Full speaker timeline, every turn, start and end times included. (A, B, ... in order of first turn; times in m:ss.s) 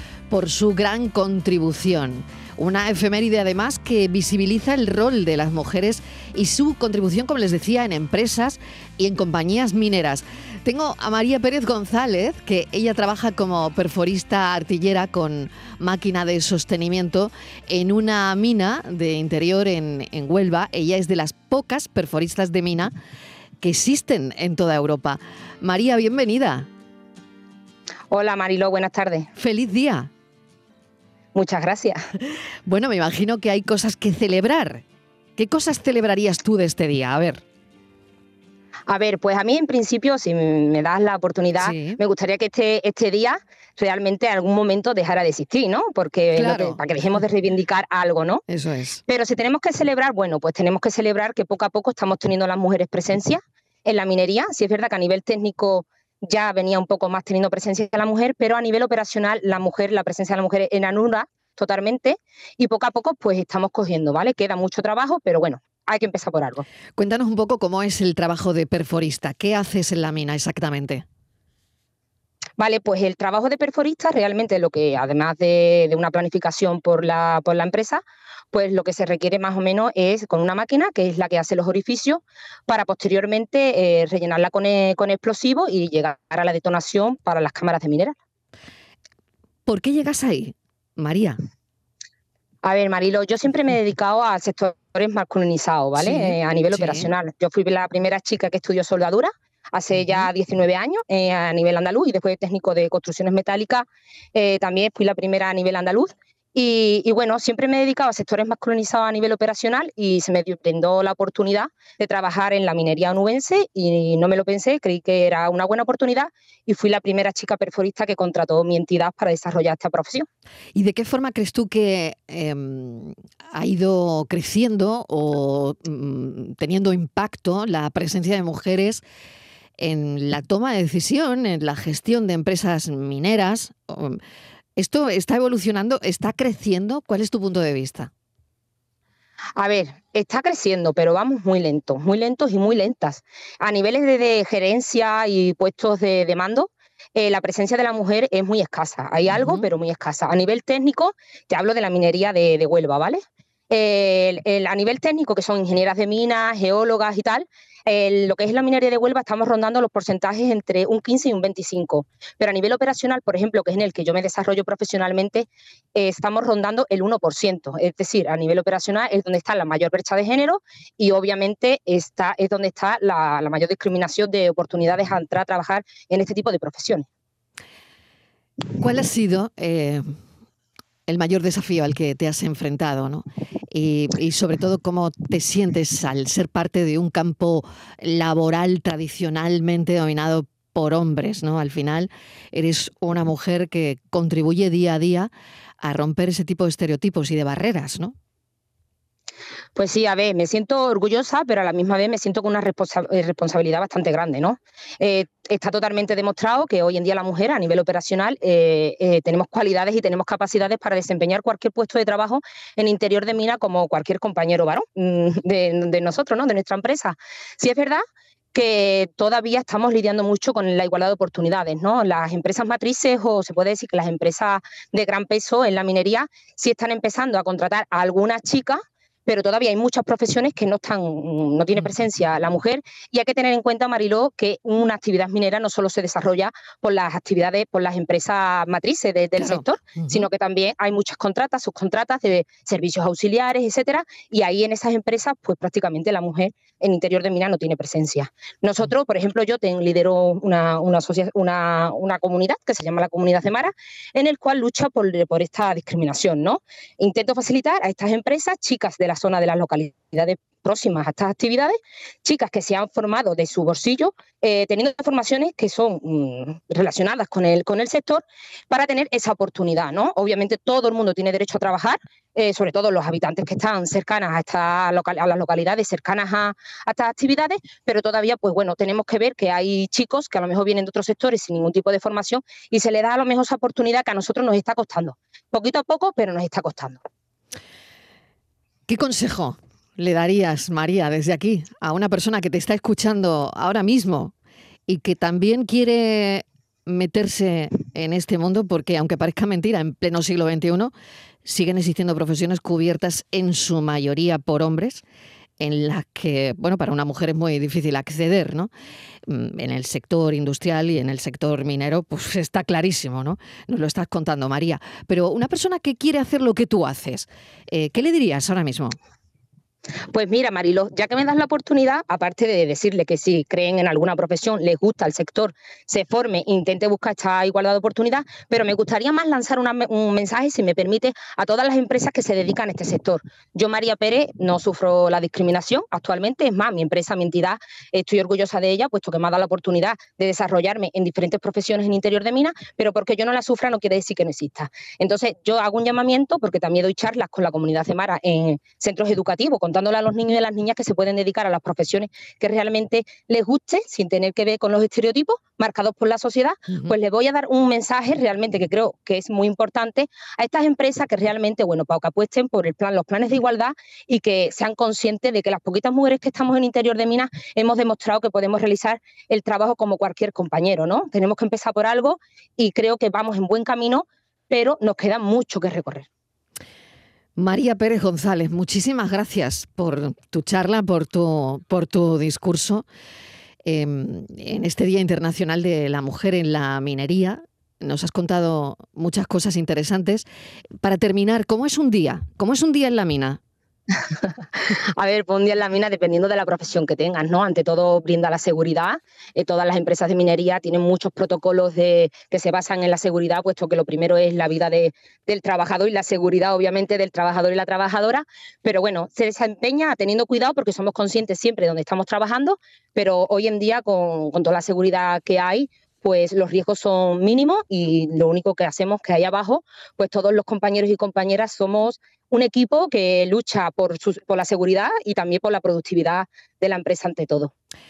0:00.3-0:22.9 A
0:23.6-0:26.7 A
0:28.1-0:29.3 B
0:29.4-0:30.1 A
0:31.3-0:32.0 B
0:32.6-0:34.8 A
0:35.4-0:37.4 A
0:38.9-0:48.4 B
0:41.6-0:42.0 A
0:46.3-0:46.8 A
0:48.5-0:49.0 A
0:49.1-1:06.6 B
1:07.0-1:11.0 A
1:12.6-1:28.1 B
1:29.6-1:31.4 A
1:32.6-2:00.2 B
1:36.0-1:37.1 A
1:39.9-1:40.3 A
2:00.7-2:09.0 A
2:09.8-2:14.2 A
2:14.8-2:18.1 A
2:19.6-2:57.0 B
2:29.3-2:29.6 A
2:58.7-3:00.0 A
3:01.1-3:15.3 A
3:15.8-3:18.1 A
3:19.8-3:38.0 B
3:38.5-4:47.0 B
3:59.4-4:00.2 A
4:48.9-4:54.3 A
4:54.9-5:00.9 A
5:01.4-5:05.0 A
5:05.6-5:08.7 A
5:09.3-5:19.0 A
5:20.1-6:16.1 B
6:17.4-6:22.8 A
6:23.6-6:30.2 A
6:30.8-6:33.4 A
6:34.1-7:07.5 B